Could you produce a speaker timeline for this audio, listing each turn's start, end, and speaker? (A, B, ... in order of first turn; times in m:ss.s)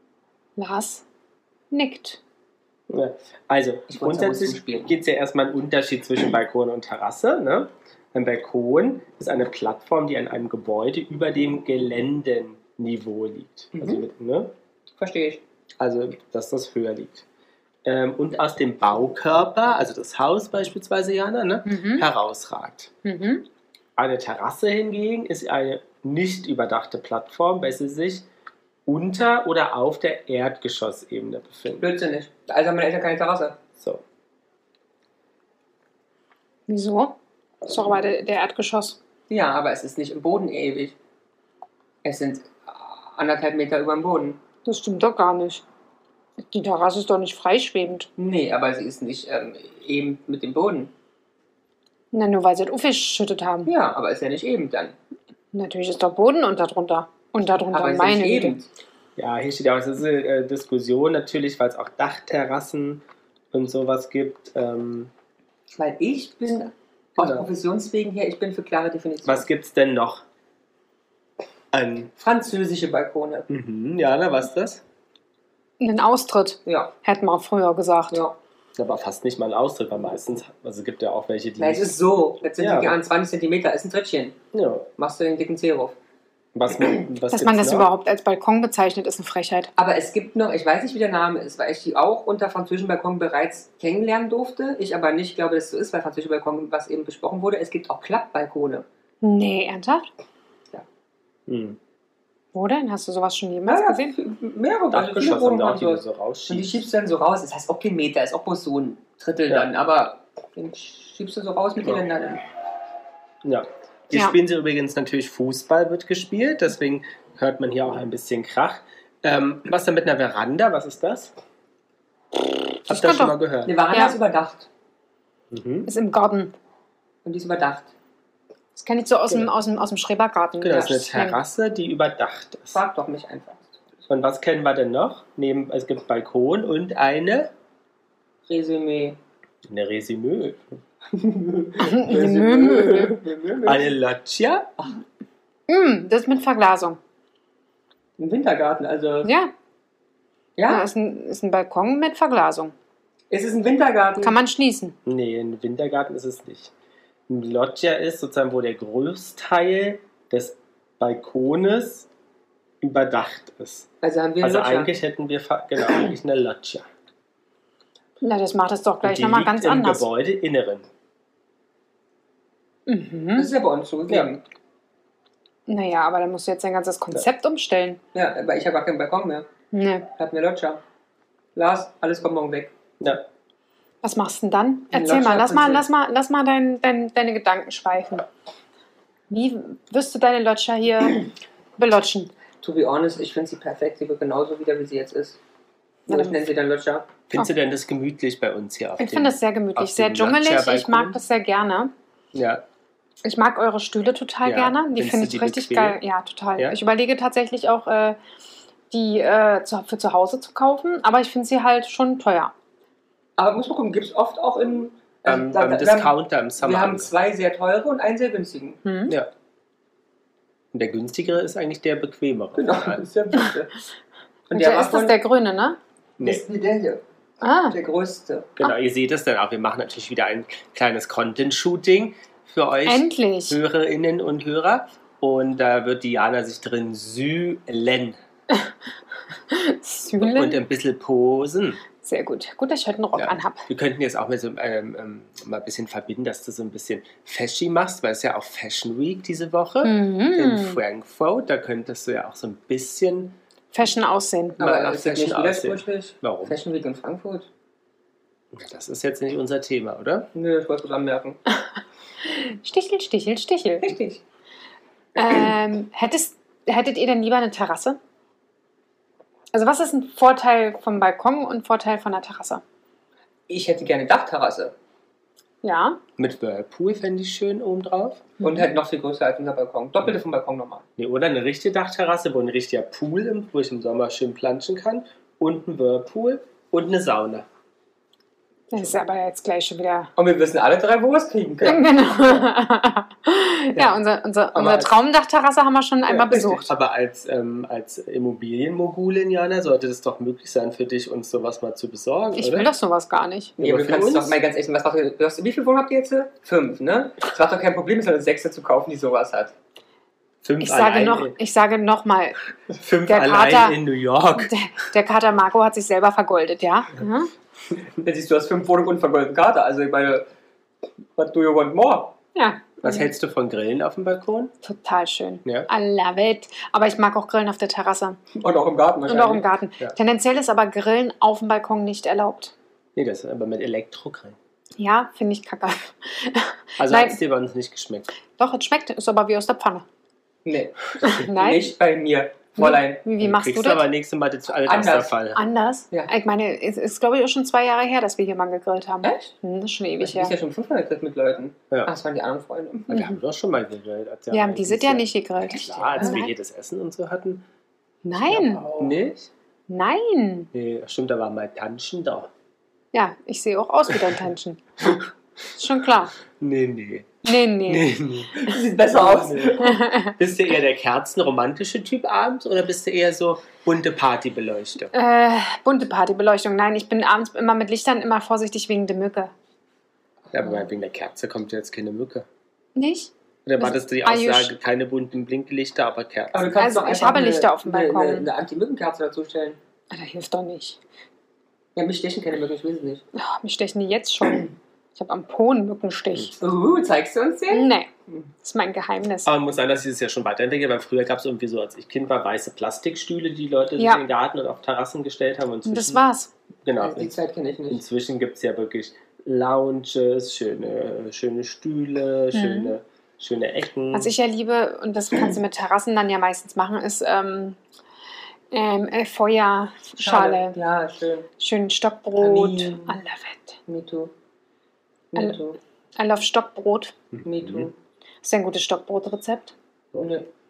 0:00.6-0:01.0 A
0:01.7-0:02.2 A
0:02.9-0:14.5 B
0:03.9-0:04.9 C
0:13.7-0:14.0 C
0:15.0-0:15.4 C
0:15.8-0:17.2 B
0:17.8-0:22.9 B
0:21.7-0:22.1 A
0:23.0-0:23.5 A
0:24.0-0:28.3 B
0:28.9-0:31.9 B
0:31.8-0:33.6 C
0:33.8-0:34.0 B
0:36.7-0:39.0 A
0:39.3-0:41.0 C
0:42.0-0:44.4 C
0:44.6-0:45.6 A
0:46.5-0:48.1 A
0:48.2-0:50.9 C
0:52.1-0:53.7 A
0:53.7-0:55.0 C
0:55.5-0:58.6 A
0:57.5-0:58.7 C
0:59.2-1:05.1 B
1:05.8-1:09.4 C
1:07.2-1:07.5 B
1:09.2-1:10.2 B
1:11.7-1:12.1 B
1:12.2-1:13.5 C
1:13.5-1:14.8 B
1:15.8-1:18.2 A
1:16.7-1:16.9 C
1:18.8-1:23.0 B
1:21.6-1:24.4 C
1:24.5-1:24.9 B
1:25.0-1:26.0 C
1:26.5-1:27.9 B
1:27.3-1:29.7 A
1:29.8-1:38.9 C
1:39.2-1:40.1 A
1:41.5-1:41.8 B
1:42.5-1:44.2 A
1:43.7-1:52.4 C
1:44.9-1:46.8 B
1:53.4-2:01.3 B
2:02.8-2:03.4 A
2:02.9-2:03.8 B
2:03.6-2:04.7 C
2:05.5-2:05.9 B
2:05.9-2:06.5 A
2:07.2-2:07.9 C
2:08.8-2:11.4 A
2:10.6-2:12.8 B
2:12.7-2:13.8 C
2:14.1-2:17.5 B
2:18.5-2:19.2 C
2:19.7-2:20.6 B
2:21.1-2:23.9 C
2:21.8-2:23.2 A
2:23.6-2:24.7 B
2:25.7-2:27.0 A
2:28.2-2:29.3 C
2:29.2-2:29.5 A
2:30.6-2:30.9 C
2:30.7-2:32.7 A
2:33.3-2:34.4 C
2:34.2-2:35.0 A
2:35.1-2:36.7 B
2:37.3-2:42.1 B
2:42.8-2:43.9 B
2:44.0-2:44.9 C
2:44.4-2:46.9 B
2:48.2-2:50.0 A
2:49.0-2:50.9 B
2:52.9-2:53.5 A
2:53.4-2:54.4 C
2:55.7-2:58.0 A
2:58.1-2:59.5 C
2:59.7-3:00.1 A
3:00.1-3:00.8 C
3:01.6-3:02.7 C
3:04.0-3:08.2 A
3:04.9-3:05.8 C
3:09.3-3:12.3 A
3:12.6-3:15.4 C
3:16.1-3:17.1 C
3:16.1-3:16.4 A
3:17.3-3:21.2 B
3:19.0-3:21.9 A
3:22.3-3:22.6 B
3:23.2-3:28.2 A
3:24.4-3:26.0 B
3:28.9-3:32.5 A
3:33.4-3:38.8 C
3:35.2-3:37.1 B
3:38.8-3:39.2 A
3:40.7-3:43.0 B
3:42.6-3:43.7 C
3:44.5-3:45.2 C
3:44.5-3:45.8 A
3:46.2-3:47.0 C
3:47.4-3:47.8 A
3:47.7-3:48.5 C
3:48.6-3:58.2 B
3:52.9-3:53.6 A
3:59.5-4:00.6 A
4:00.2-4:01.8 B
4:02.0-4:03.7 A
4:03.2-4:13.4 B
4:09.8-4:10.8 A
4:13.7-4:14.6 A
4:14.6-4:16.6 B
4:14.6-4:17.5 C
4:18.5-4:20.3 B
4:20.3-4:21.4 C
4:22.2-4:23.9 A
4:23.8-4:24.2 C
4:25.2-4:28.0 A
4:29.5-4:32.6 A
4:33.5-4:34.7 C
4:35.6-4:36.0 A
4:36.2-4:38.3 B
4:38.4-4:40.8 C
4:41.0-4:47.5 B
4:48.7-4:50.1 A
4:50.2-4:51.9 C
4:51.6-4:56.7 A
4:54.5-4:54.9 B
4:56.1-5:02.7 B
5:02.4-5:03.6 A
5:03.6-5:04.4 B
5:03.6-5:09.5 C
5:10.4-5:11.4 B
5:10.6-5:12.4 A
5:12.7-5:14.5 B
5:13.1-5:13.8 A
5:14.4-5:17.3 A
5:18.0-5:20.3 C
5:21.2-5:22.1 C
5:22.4-5:23.1 A
5:22.8-5:24.5 B
5:24.6-5:28.2 A
5:28.4-5:29.4 C
5:29.1-5:32.5 A
5:33.0-5:34.4 B
5:34.8-5:37.2 A
5:36.8-5:38.1 B
5:38.4-5:39.8 A
5:40.4-5:43.0 C
5:41.0-5:41.7 A
5:42.6-5:43.9 A
5:43.2-5:45.4 B
5:44.6-5:45.2 C
5:45.4-5:50.3 A
5:49.0-5:49.3 C
5:50.0-5:53.0 C
5:52.9-5:57.5 B
5:54.3-5:56.3 A
5:58.0-5:58.7 A
5:58.3-5:59.2 B
5:58.4-5:59.2 C
5:59.7-6:00.5 A
6:00.5-6:02.3 B
6:02.9-6:06.2 A
6:06.3-6:14.9 B
6:07.2-6:07.9 A
6:08.4-6:09.8 C
6:09.6-6:10.1 A
6:14.9-6:19.3 A
6:20.3-6:22.3 B
6:22.8-6:24.5 A
6:23.5-6:26.6 B
6:26.3-6:29.6 C
6:26.6-6:28.3 A
6:29.9-6:30.8 A
6:31.8-6:33.0 C
6:33.2-6:36.4 A
6:36.4-6:38.2 C
6:37.5-6:37.9 A
6:38.4-6:39.3 A
6:39.2-6:46.1 B
6:43.8-6:44.0 A
6:45.7-6:46.3 A
6:46.6-6:47.2 B
6:46.8-6:47.8 C
6:47.7-6:54.1 B
6:52.3-6:52.8 A
6:53.9-6:57.6 A
6:58.5-7:00.6 A
7:00.0-7:01.3 C
7:01.4-7:03.6 A
7:02.2-7:03.0 C
7:03.7-7:04.1 C
7:05.1-7:05.6 C
7:06.0-7:06.9 A
7:07.1-7:07.7 B
7:07.2-7:07.7 C
7:08.2-7:09.5 A
7:10.0-7:10.3 C